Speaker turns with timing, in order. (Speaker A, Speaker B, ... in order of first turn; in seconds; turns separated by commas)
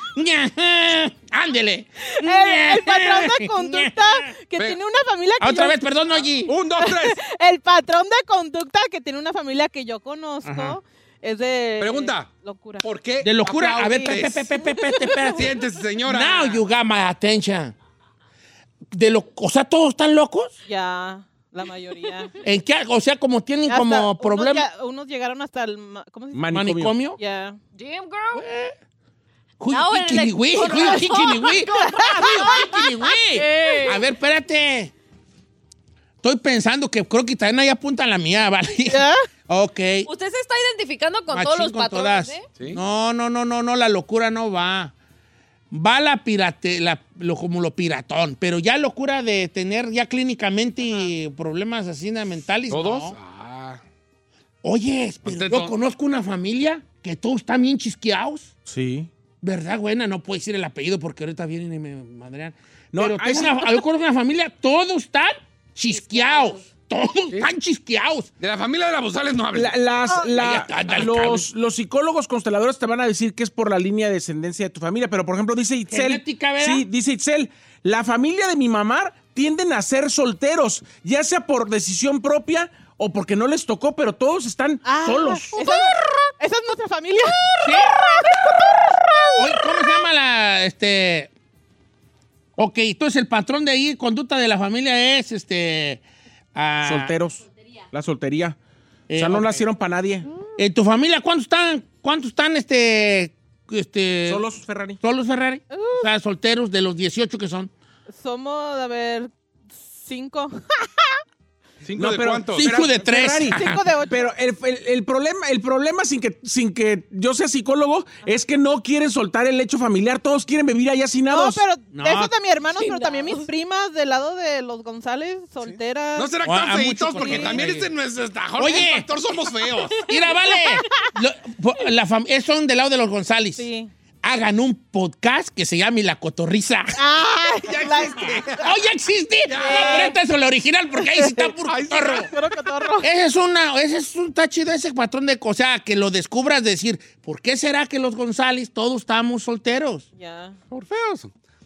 Speaker A: 0.1-4.3, Speaker B: 2.2-5.9, Speaker A: 5.4-6.5, Speaker C: 6.5-7.1, Speaker B: 6.8-12.8, Speaker A: 10.4-10.8, Speaker C: 11.8-12.3, Speaker C: 12.8-14.5, Speaker A: 13.2-15.5, Speaker B: 13.8-15.4, Speaker C: 15.4-16.6, Speaker A: 16.1-17.7, Speaker A: 18.9-20.5, Speaker B: 20.6-22.3, Speaker A: 22.4-24.7, Speaker B: 23.7-26.5, Speaker D: 26.3-26.9, Speaker A: 26.5-27.2, Speaker B: 27.2-27.6, Speaker E: 27.7-28.4, Speaker A: 28.3-28.7, Speaker A: 29.6-34.9, Speaker E: 29.7-32.8, Speaker B: 31.8-32.5, Speaker E: 33.3-34.1, Speaker A: 36.2-40.1, Speaker B: 38.9-39.2, Speaker E: 40.0-42.5, Speaker A: 41.3-44.9, Speaker A: 45.7-53.1, Speaker C: 52.7-53.8, Speaker A: 54.6-58.5, Speaker C: 55.2-55.8, Speaker D: 58.7-59.1, Speaker A: 59.4-68.3, Speaker D: 62.9-63.8, Speaker E: 65.9-66.7, Speaker C: 68.4-69.8, Speaker D: 69.5-85.5, Speaker A: 70.4-71.5, Speaker A: 75.9-76.8, Speaker B: 84.8-89.6, Speaker A: 87.6-88.0, Speaker A: 89.4-91.3, Speaker A: 92.6-96.0, Speaker A: 96.5-97.1, Speaker D: 96.8-98.6, Speaker A: 99.1-99.6, Speaker D: 99.2-100.2, Speaker A: 100.6-104.4, Speaker D: 104.2-105.0, Speaker A: 105.0-107.7, Speaker B: 105.7-106.1, Speaker B: 108.1-109.3, Speaker B: 109.8-111.2, Speaker C: 111.8-112.8, Speaker D: 111.9-121.6, Speaker A: 112.5-113.9, Speaker B: 113.5-114.3, Speaker B: 121.3-126.4, Speaker A: 121.9-122.3, Speaker E: 122.7-123.5, Speaker C: 126.1-130.0, Speaker A: 126.4-127.9, Speaker B: 127.1-127.7, Speaker A: 128.6-129.1, Speaker A: 130.0-133.7, Speaker B: 130.2-131.1, Speaker B: 133.6-133.9, Speaker A: 134.2-137.0, Speaker B: 137.0-138.7, Speaker C: 137.6-138.6, Speaker A: 138.6-142.3, Speaker C: 139.5-140.1, Speaker B: 139.5-140.2, Speaker B: 141.0-143.1, Speaker C: 141.7-142.3, Speaker A: 143.0-150.1, Speaker B: 150.1-150.6, Speaker C: 150.7-151.3